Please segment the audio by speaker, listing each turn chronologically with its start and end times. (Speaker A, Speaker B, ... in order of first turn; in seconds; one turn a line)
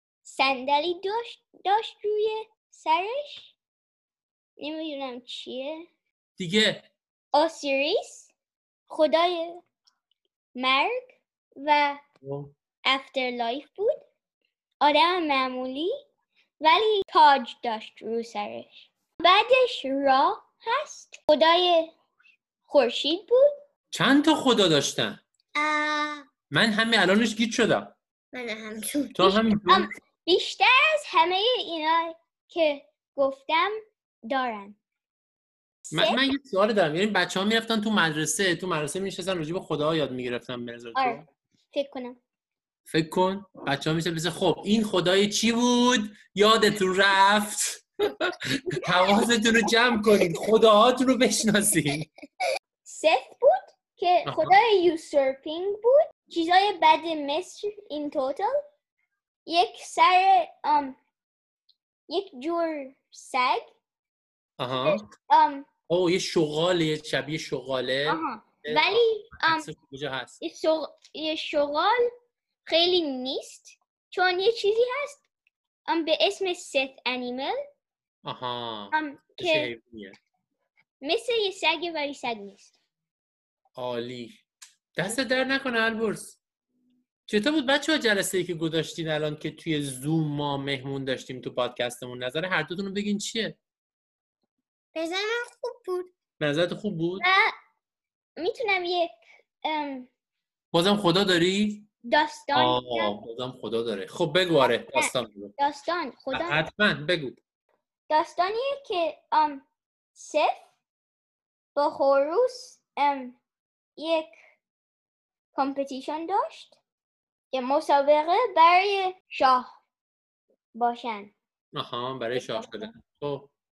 Speaker A: 0.2-3.5
Speaker A: 4.6-5.9
Speaker B: 6.4-6.9
Speaker A: 7.3-8.3
Speaker A: 8.9-9.6
Speaker A: 10.5-12.0
Speaker B: 12.2-12.5
Speaker A: 12.8-14.0
Speaker A: 14.8-15.9
Speaker A: 16.6-21.9
Speaker A: 22.7-23.5
Speaker B: 23.9-25.2
Speaker C: 25.6-26.3
Speaker B: 26.5-27.9
Speaker C: 28.3-29.4
Speaker B: 29.1-29.9
Speaker A: 29.7-33.7
Speaker A: 34.2-34.8
Speaker A: 35.9-36.2
Speaker B: 35.9-41.3
Speaker A: 40.9-41.2
Speaker A: 41.7-42.2
Speaker B: 42.9-52.1
Speaker A: 52.9-58.5
Speaker B: 54.2-54.5
Speaker A: 59.5-61.0
Speaker A: 62.1-63.7
Speaker B: 64.6-65.0
Speaker A: 64.7-65.7
Speaker B: 65.9-70.4
Speaker A: 68.1-69.7
Speaker A: 70.4-72.0
Speaker A: 72.7-75.2
Speaker A: 75.9-77.6
Speaker B: 78.2-80.2
Speaker A: 78.9-79.7
Speaker A: 81.0-82.7
Speaker B: 83.8-84.4
Speaker B: 85.0-86.4
Speaker B: 87.3-93.6
Speaker C: 94.9-96.1
Speaker B: 96.4-97.2
Speaker A: 97.2-97.5
Speaker A: 98.4-100.1
Speaker B: 100.7-101.9
Speaker A: 102.0-103.2
Speaker B: 102.5-105.5
Speaker A: 104.6-106.6
Speaker B: 106.3-107.4
Speaker A: 108.1-109.6
Speaker A: 110.1-110.6
Speaker A: 111.8-113.3
Speaker A: 114.0-114.3
Speaker A: 115.5-116.8
Speaker A: 117.5-119.7
Speaker A: 120.7-121.3
Speaker B: 121.7-123.5
Speaker A: 122.4-122.8